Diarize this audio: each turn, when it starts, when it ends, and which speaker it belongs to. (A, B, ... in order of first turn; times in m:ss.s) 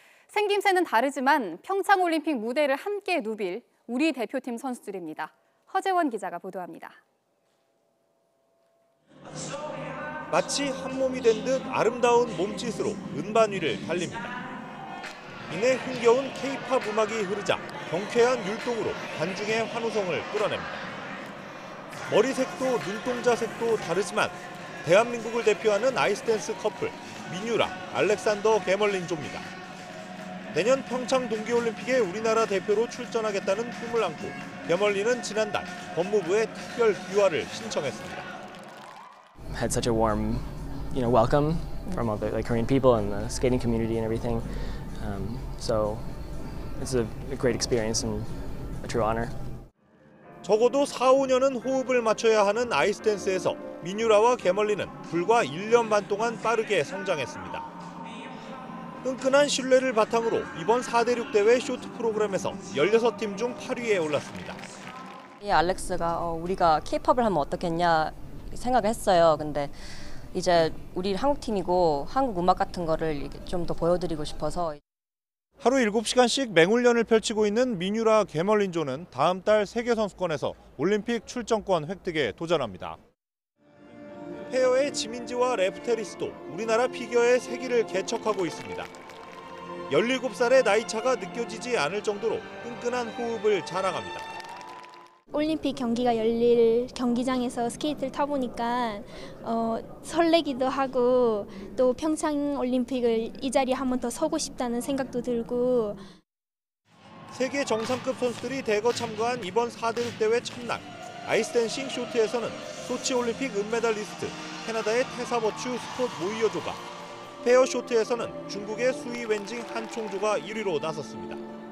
0:00.3-0:07.0 A
0:10.3-0:14.4 B
0:15.5-0:20.8 B
0:22.1-0:29.5 B
0:30.5-0:38.3 B
0:39.5-0:49.4 C
0:50.4-0:57.7 B
0:59.0-1:04.6 B
1:05.4-1:14.8 D
1:15.6-1:23.0 B
1:24.5-1:28.9 B
1:29.9-1:34.2 B
1:35.3-1:46.0 E
1:47.3-1:56.8 B
1:57.4-2:01.4 B